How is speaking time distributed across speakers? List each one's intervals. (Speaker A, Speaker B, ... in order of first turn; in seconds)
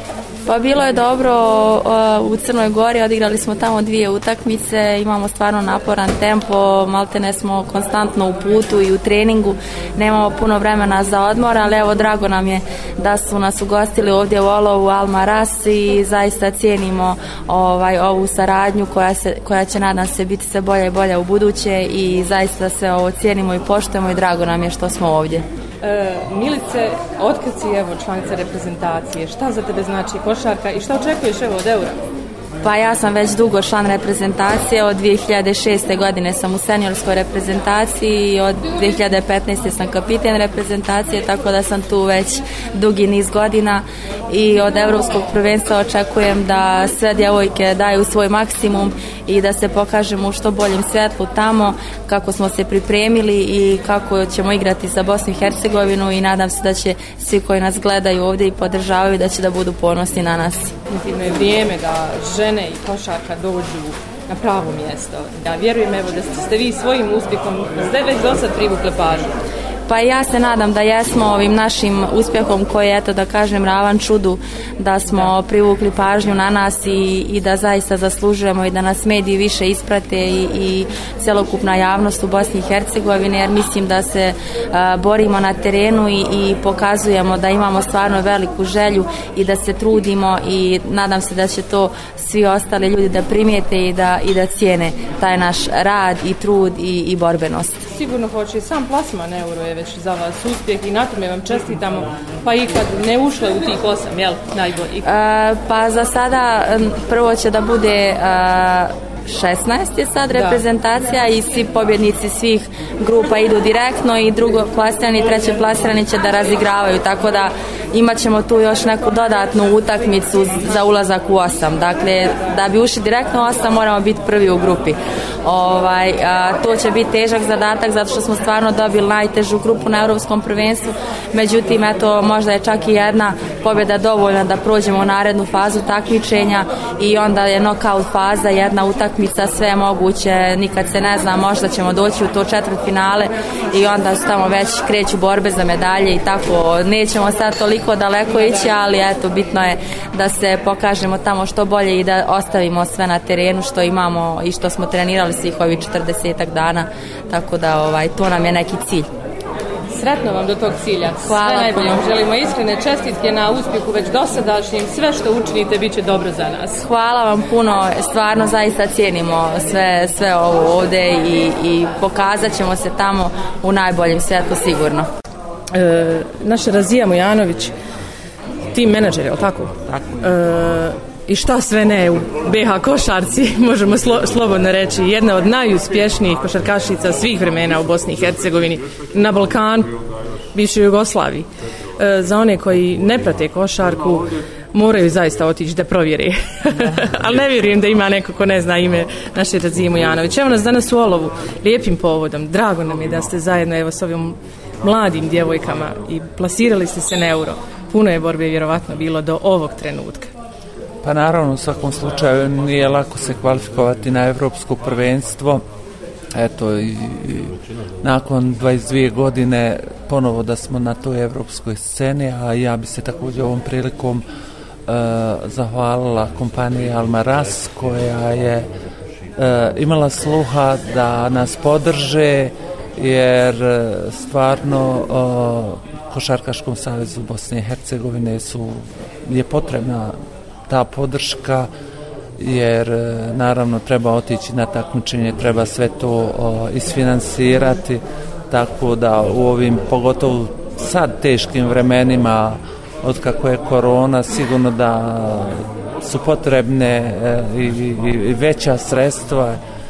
Speaker A: 0.5-25.5, 32.6-60.7, 69.9-97.8, 105.0-159.1, 161.2-162.0, 166.8-175.1
Speaker B: 25.8-32.0, 60.9-69.3, 75.1-75.3, 97.9-105.1, 110.3-110.6, 148.4-148.7, 159.9-166.8, 175.7-177.7, 178.7-189.9, 190.5-210.3
Speaker C: 179.9-180.3, 211.0-215.6, 216.3-224.2, 224.9-228.7, 229.4-240.2, 240.7-241.7, 242.4-259.6